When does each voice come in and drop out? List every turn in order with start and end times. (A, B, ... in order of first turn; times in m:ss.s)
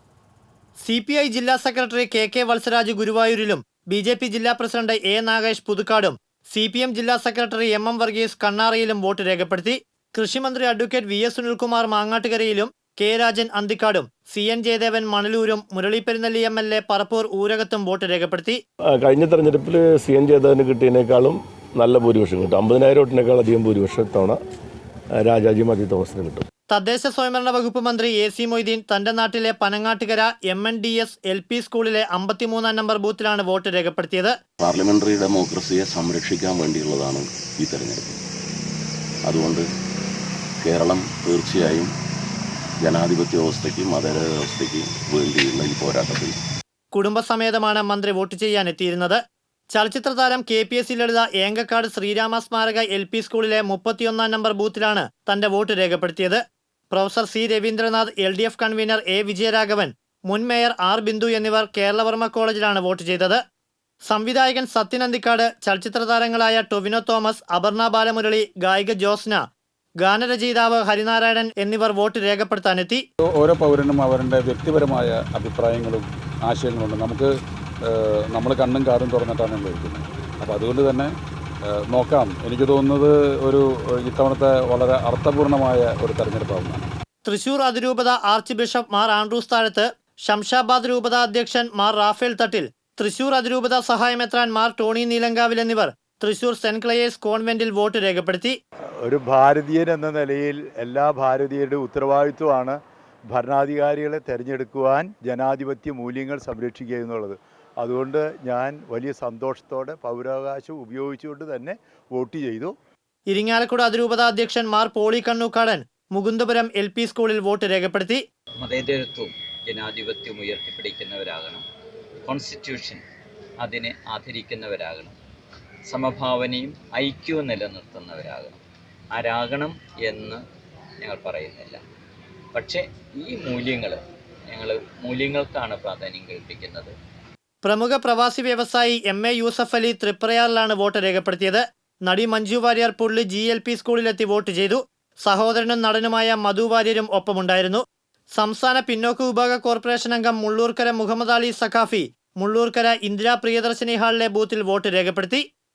0:00.8-0:18.6 A
0:19.0-0:24.4 B
0:25.2-0:26.5 B
0:26.7-0:34.4 A
0:34.6-0:38.2 C
0:39.2-0:39.7 C
0:40.6-0:41.9 C
0:42.8-0:46.4 C
0:46.9-1:03.4 A
1:04.0-1:09.4 A
1:10.0-1:13.0 A
1:13.3-1:17.3 D
1:17.8-1:21.1 D
1:21.7-1:26.9 D
1:27.2-1:38.6 A
1:39.0-1:52.7 E
1:53.3-1:58.2 A
1:58.6-2:01.6 F
2:02.2-2:03.0 F
2:03.6-2:05.2 F
2:05.9-2:08.6 F
2:09.1-2:10.4 F
2:11.0-2:11.8 F
2:12.5-2:16.9 F
2:17.6-2:35.4 A